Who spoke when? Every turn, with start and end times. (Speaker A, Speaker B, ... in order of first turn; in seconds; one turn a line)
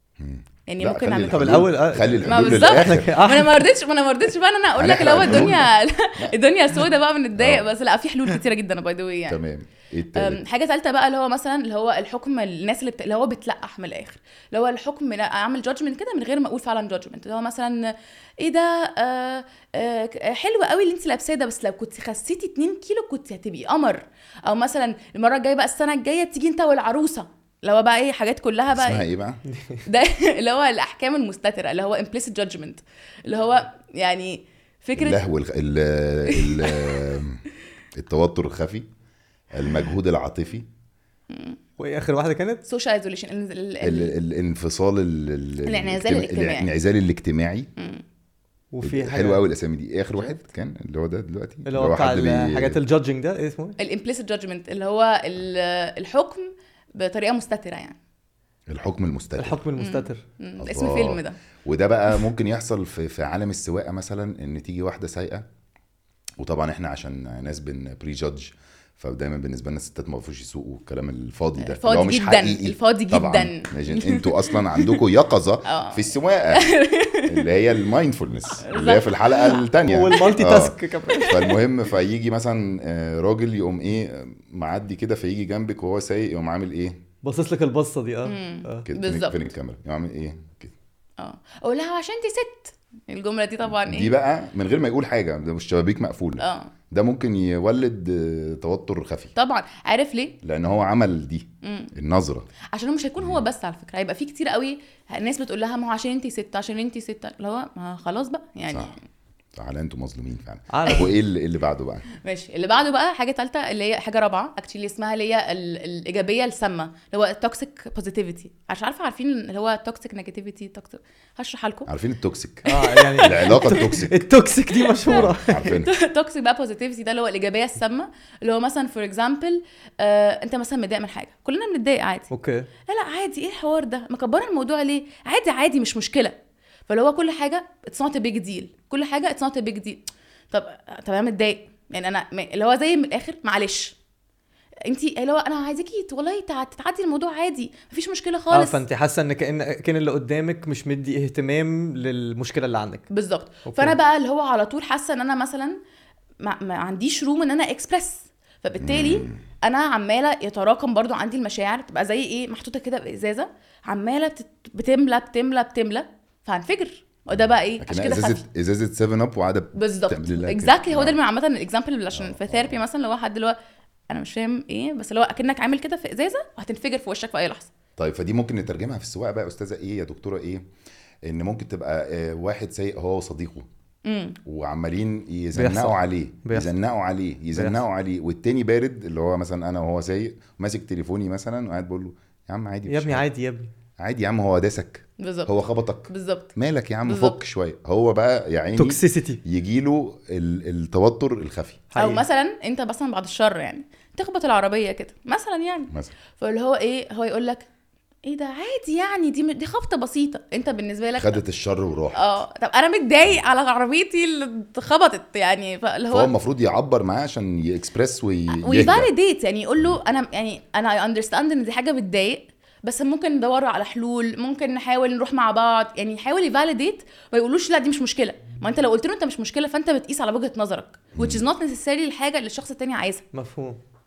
Speaker A: 0.2-3.1
Speaker B: 0.7-9.4
Speaker C: 1.3-3.7
Speaker A: 4.8-6.3
Speaker A: 7.4-7.7
Speaker A: 9.3-10.4
Speaker B: 10.1-29.1
Speaker A: 28.7-29.4
Speaker C: 29.5-29.8
Speaker B: 29.8-35.2
Speaker A: 35.0-37.4
Speaker B: 36.3-37.0
Speaker A: 37.9-38.9
Speaker A: 39.5-40.7
Speaker B: 41.3-41.6
Speaker C: 41.8-42.6
Speaker B: 42.6-44.1
Speaker A: 43.8-47.7
Speaker B: 45.6-46.7
Speaker B: 47.8-48.0
Speaker C: 48.7-49.4
Speaker A: 48.8-52.8
Speaker C: 51.6-53.8
Speaker B: 53.8-58.0
Speaker A: 58.7-59.6
Speaker C: 59.4-60.2
Speaker B: 59.8-61.4
Speaker A: 60.6-65.5
Speaker A: 66.4-76.7
Speaker B: 71.6-75.0
Speaker B: 75.6-77.5
Speaker A: 77.2-80.8
Speaker B: 78.6-80.3
Speaker C: 79.8-81.5
Speaker B: 81.0-81.5
Speaker A: 81.3-87.0
Speaker C: 87.2-88.9
Speaker B: 88.2-89.5
Speaker A: 88.8-90.7
Speaker B: 91.2-94.1
Speaker A: 93.6-99.3
Speaker B: 96.4-96.7
Speaker B: 99.3-100.3
Speaker A: 100.4-102.5
Speaker B: 101.6-101.9
Speaker B: 102.7-109.0
Speaker A: 108.7-109.0
Speaker A: 109.5-112.0
Speaker C: 110.7-111.1
Speaker B: 112.2-121.9
Speaker A: 121.9-124.2
Speaker C: 122.7-125.8
Speaker B: 122.7-123.8
Speaker B: 124.8-132.3
Speaker A: 125.1-125.9
Speaker C: 132.3-132.7
Speaker B: 132.9-136.3
Speaker B: 136.9-143.9
Speaker B: 144.8-148.8
Speaker C: 148.5-153.1
Speaker B: 153.1-155.8
Speaker C: 153.7-153.9
Speaker B: 156.4-168.4
Speaker A: 158.8-159.4
Speaker A: 167.8-171.2
Speaker B: 169.7-173.6
Speaker A: 172.1-172.8
Speaker B: 174.1-177.7
Speaker A: 178.0-180.6
Speaker A: 181.2-183.7
Speaker B: 184.0-184.4
Speaker A: 184.4-193.2
Speaker C: 185.5-186.7
Speaker C: 187.5-187.8
Speaker C: 192.9-193.7
Speaker A: 194.0-201.9
Speaker B: 195.2-195.5
Speaker B: 196.1-196.5
Speaker B: 197.0-197.4
Speaker C: 198.8-199.4
Speaker C: 201.9-202.2
Speaker B: 201.9-207.7
Speaker B: 208.2-211.4
Speaker A: 211.2-212.4
Speaker B: 212.1-216.3
Speaker A: 216.1-219.1
Speaker B: 218.5-233.2
Speaker A: 231.2-231.4
Speaker C: 233.3-233.8